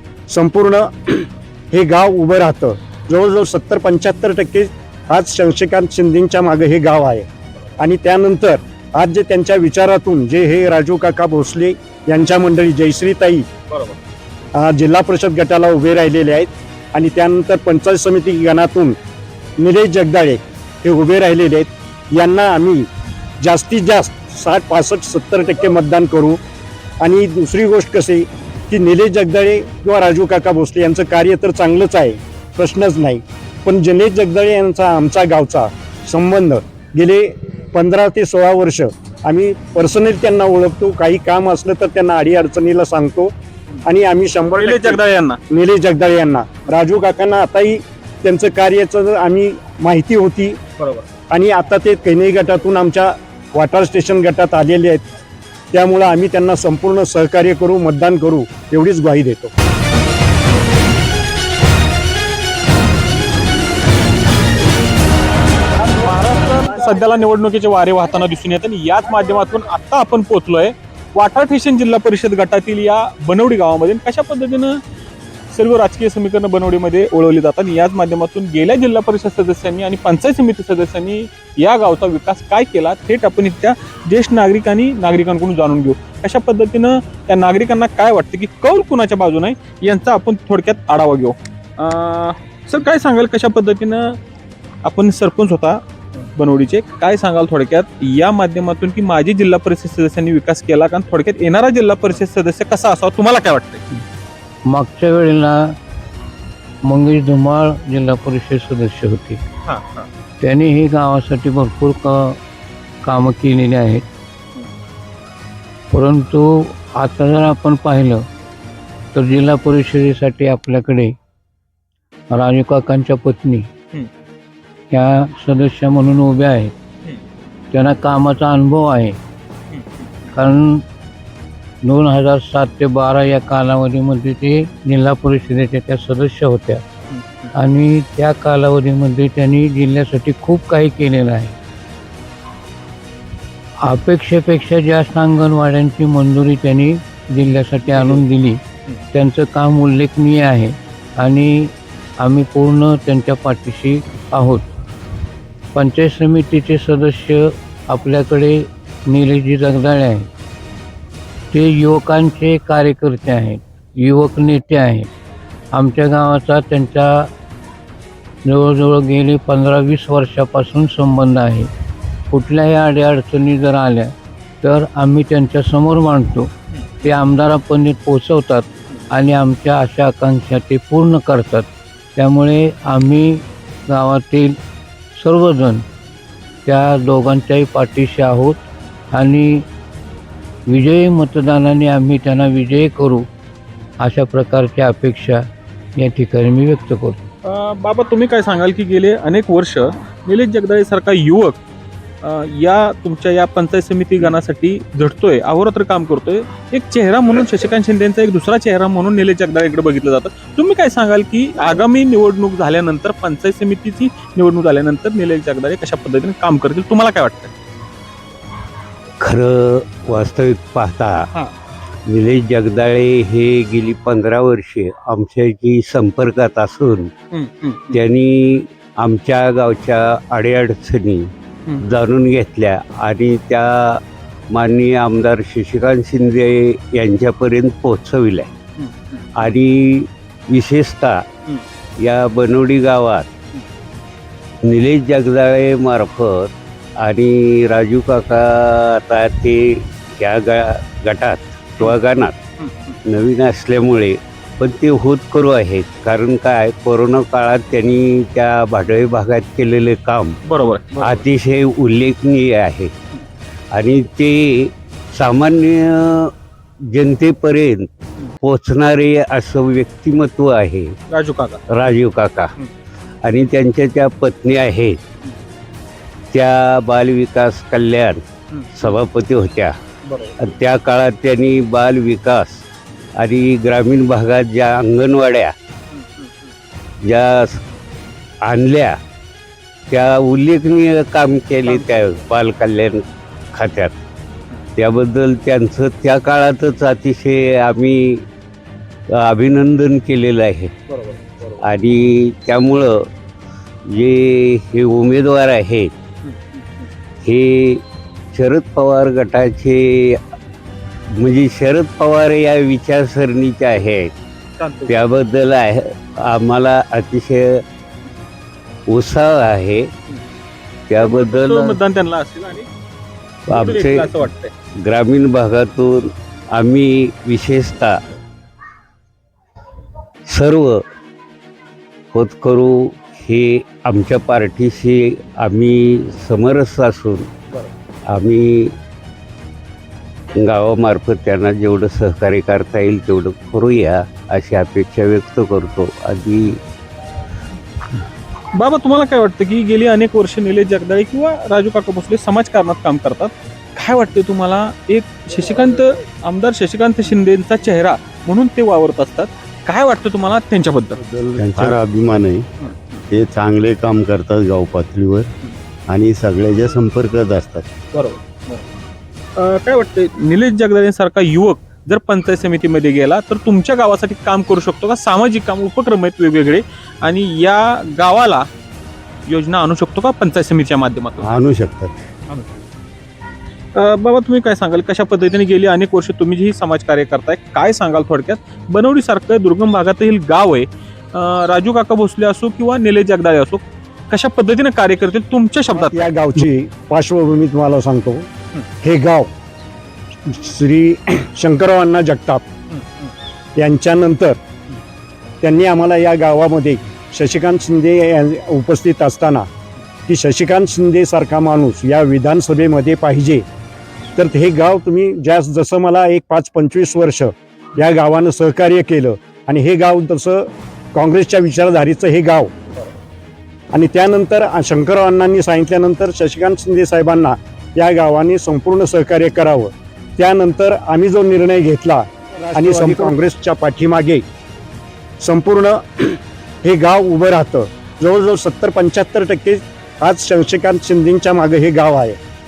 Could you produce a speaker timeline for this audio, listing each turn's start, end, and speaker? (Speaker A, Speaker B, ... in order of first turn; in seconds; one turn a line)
Speaker A: 0.3-7.3
Speaker A: 7.8-13.5
Speaker A: 14.5-19.0
Speaker A: 19.6-22.9
Speaker A: 23.4-26.4
Speaker A: 27.0-43.3
Speaker A: 43.8-50.6
Speaker B: 44.6-45.4
Speaker A: 51.3-55.1
Speaker A: 55.7-59.5
Speaker B: 65.9-74.8
Speaker B: 75.5-94.1
Speaker B: 94.8-95.8
Speaker B: 96.4-103.8
Speaker C: 104.7-105.6
Speaker C: 106.8-109.4
Speaker B: 109.6-110.1
Speaker C: 110.4-112.4
Speaker C: 113.0-114.0
Speaker C: 115.9-118.2
Speaker C: 119.1-121.1
Speaker C: 122.3-123.7
Speaker C: 124.9-126.7
Speaker C: 127.7-129.2
Speaker B: 129.7-130.1
Speaker C: 130.3-130.8
Speaker C: 131.8-136.8
Speaker B: 137.1-137.5
Speaker C: 137.5-141.6
Speaker C: 143.8-148.6
Speaker B: 147.9-148.2
Speaker C: 149.1-154.7
Speaker C: 155.8-160.3
Speaker C: 161.5-165.1
Speaker C: 165.7-167.3
Speaker C: 168.4-171.7
Speaker C: 172.3-176.5
Speaker C: 177.0-184.5
Speaker C: 185.2-185.8
Speaker C: 186.7-188.6
Speaker C: 189.1-189.6
Speaker C: 190.7-193.2
Speaker C: 194.0-195.4
Speaker C: 196.0-197.2
Speaker B: 197.4-201.6
Speaker B: 202.2-217.5
Speaker D: 219.2-221.3
Speaker D: 222.1-227.1
Speaker B: 227.3-228.0
Speaker D: 227.9-238.5
Speaker B: 238.8-239.6
Speaker D: 239.4-241.2
Speaker D: 242.0-243.3
Speaker D: 244.6-252.4
Speaker B: 252.6-253.0
Speaker D: 253.1-260.4
Speaker B: 260.4-261.2
Speaker D: 261.0-262.9
Speaker D: 263.7-266.3
Speaker D: 266.9-267.9
Speaker D: 268.4-270.9
Speaker B: 271.1-271.6
Speaker D: 271.7-272.5
Speaker D: 273.2-275.0
Speaker D: 276.3-278.2
Speaker B: 278.5-279.0
Speaker D: 278.8-279.8
Speaker B: 280.1-280.5
Speaker D: 280.4-282.6
Speaker D: 283.2-285.5
Speaker B: 285.9-286.3
Speaker D: 287.0-287.6
Speaker D: 288.4-289.0
Speaker D: 289.9-294.0
Speaker B: 291.7-292.2
Speaker D: 294.8-298.2
Speaker D: 299.2-300.8
Speaker B: 300.9-301.5
Speaker D: 301.6-303.1
Speaker D: 303.9-305.9
Speaker B: 306.2-306.6
Speaker D: 307.2-307.8
Speaker D: 308.3-310.2
Speaker D: 311.1-314.1
Speaker B: 314.6-315.0
Speaker D: 314.9-317.6
Speaker D: 318.9-319.9
Speaker D: 320.9-321.8
Speaker B: 321.0-322.7
Speaker B: 323.5-324.5
Speaker D: 323.5-324.2
Speaker D: 324.8-328.0
Speaker D: 330.3-330.8
Speaker D: 332.1-337.3
Speaker D: 338.1-338.7
Speaker D: 340.4-346.6
Speaker B: 348.5-361.0
Speaker E: 361.0-362.5
Speaker D: 361.4-361.8
Speaker B: 362.6-363.0
Speaker E: 363.1-365.3
Speaker E: 365.9-367.6
Speaker B: 367.9-368.6
Speaker B: 369.4-378.4
Speaker B: 379.3-381.3
Speaker E: 381.4-381.9
Speaker B: 383.8-396.1
Speaker A: 395.7-398.3
Speaker A: 398.8-399.3
Speaker A: 400.2-402.4
Speaker B: 402.7-403.1
Speaker A: 403.6-404.4
Speaker A: 405.4-409.5
Speaker A: 410.1-413.4
Speaker A: 414.2-422.5
Speaker A: 423.7-434.2
Speaker A: 435.2-442.2